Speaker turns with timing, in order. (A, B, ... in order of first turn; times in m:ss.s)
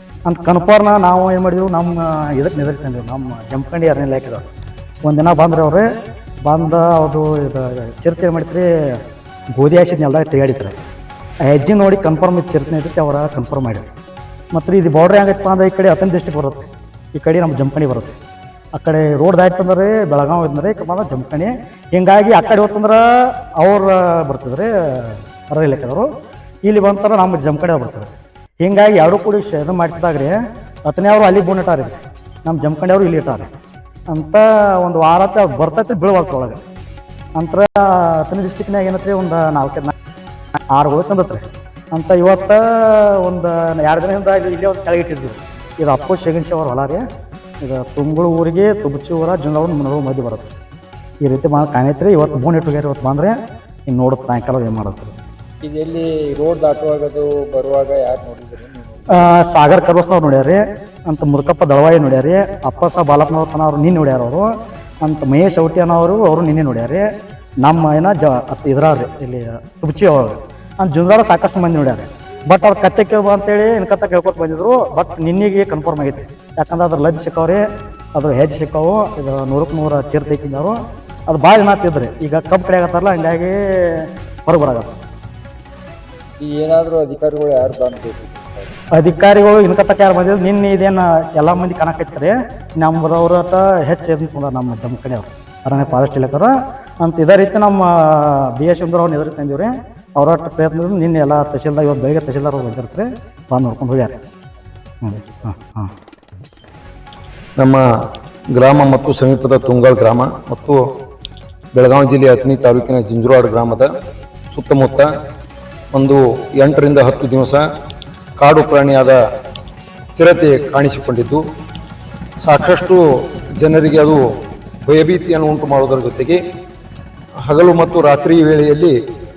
0:00.2-0:04.4 A
0:05.0-0:05.9 A
0:06.4-0:09.0 A
0:09.5-0:10.8 A
0:11.4-0:13.8 A
0:14.5-0:18.2 A
0:18.7-0:26.1 A
0:26.6-0:33.5 A
0:34.1-0:36.6 A
0:37.4-0:39.9 A
0:40.7-0:47.0 A
0:47.6-0:50.5 A
0:51.2-0:53.4 A
0:53.9-0:55.1 A
0:55.6-0:59.3 B
0:59.1-1:04.5 A
1:05.0-1:07.0 A
1:07.6-1:17.6 A
1:18.1-1:20.8 A
1:21.3-1:25.0 A
1:26.4-1:28.7 B
1:28.9-1:44.2 A
1:45.0-1:45.9 A
1:47.6-1:47.8 C
1:48.5-1:50.8 C
1:51.7-1:53.9 C
1:54.5-1:55.1 C
1:55.9-1:57.6 C
1:58.4-1:59.2 C
2:00.1-2:01.4 C
2:02.4-2:03.0 C
2:03.6-2:04.2 C
2:04.8-2:06.4 C
2:07.4-2:08.9 C